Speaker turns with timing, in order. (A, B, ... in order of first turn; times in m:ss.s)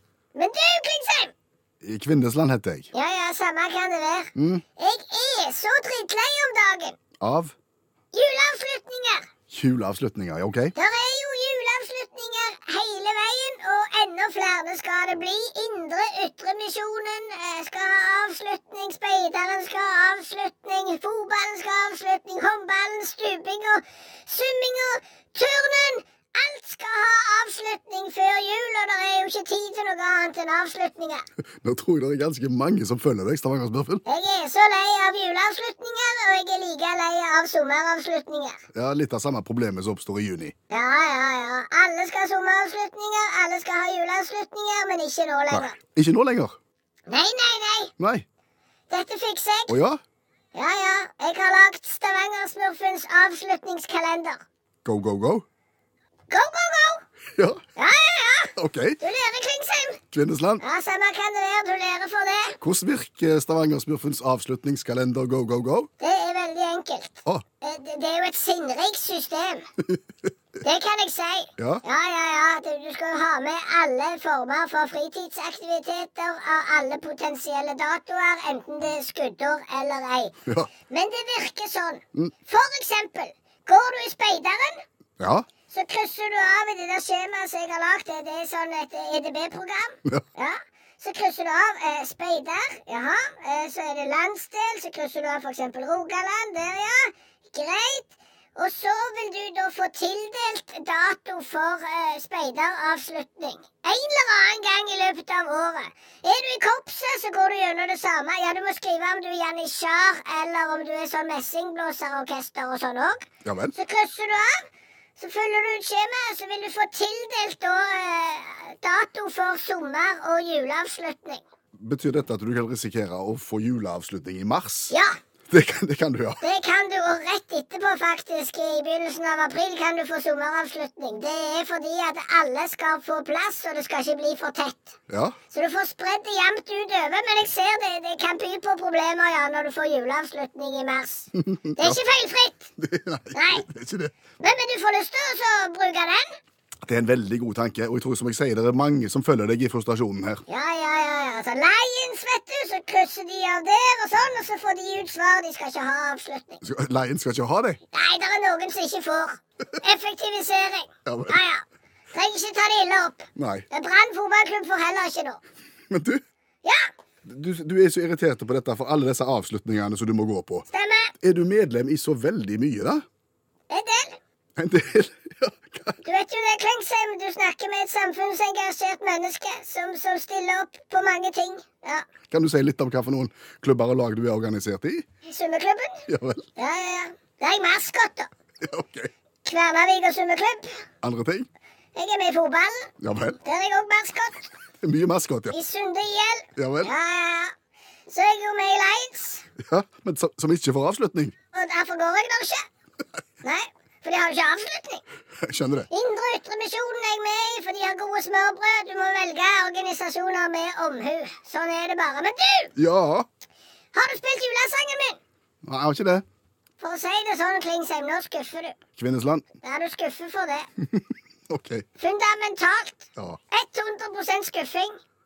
0:00.3-0:01.3 A
0:01.8-0:02.9 B
0:02.9-0:07.0 A
0:04.4-0:04.6 B
0:07.2-0:07.6 B
0:08.1-0:09.3 A
0:09.5-0:10.7 B
0:10.8-0:31.2 A
0:31.6-0:34.0 B
0:34.0-0:38.6 A
0:38.7-0:40.5 B
0:40.7-0:45.7 A
0:45.5-0:46.6 B
0:47.1-0:47.9 A
0:48.0-0:48.2 B
0:48.9-0:49.8 A
0:49.7-0:50.0 B
0:50.5-0:54.4 A
0:54.8-0:55.4 B
0:56.3-0:57.0 A
0:57.8-1:00.0 A
0:58.6-0:59.0 B
1:00.1-1:00.6 B
1:00.6-1:02.6 A
1:02.6-1:05.9 B
1:06.0-1:09.6 A
1:10.6-1:20.3 A
1:20.9-1:24.8 A
1:25.2-1:25.4 B
1:25.7-2:01.4 A
1:53.4-1:53.7 B
2:01.8-2:04.9 B
2:04.9-2:05.2 A
2:05.5-2:06.4 B
2:06.4-2:15.0 A
2:15.1-2:15.4 B
2:15.5-2:22.7 A
2:21.4-2:22.0 B
2:22.8-2:24.1 B
2:23.3-2:23.6 A
2:24.4-2:26.4 A
2:26.8-2:30.4 B
2:30.5-2:36.6 A
2:36.6-2:37.8 B
2:37.9-2:45.4 A
2:41.0-2:41.4 B
2:43.4-2:43.6 B
2:45.9-2:46.2 B
2:47.2-2:50.7 B
2:50.7-2:51.1 A
2:51.2-2:53.0 B
2:53.7-2:54.2 A
2:54.6-2:56.0 B
2:56.0-3:02.0 A
3:02.3-3:05.0 B
3:05.2-3:06.0 A
3:06.1-3:06.4 B
3:06.6-3:08.3 A
3:08.6-3:09.1 B
3:09.4-3:10.8 A
3:11.0-3:11.5 B
3:11.9-3:12.9 A
3:13.0-3:13.4 B
3:13.4-3:14.5 A
3:14.8-3:15.6 B
3:15.5-3:17.5 A
3:16.6-3:16.9 B
3:18.1-3:19.4 A
3:19.6-3:21.3 B
3:21.5-3:22.7 A
3:23.4-3:25.0 A
3:25.4-3:25.9 B
3:25.9-3:32.7 A
3:32.8-3:33.3 B
3:33.9-3:35.2 A
3:35.6-3:36.2 B
3:36.8-3:38.8 A
3:39.0-3:39.4 B
3:39.6-3:40.7 A
3:40.8-3:41.8 B
3:42.0-3:45.0 A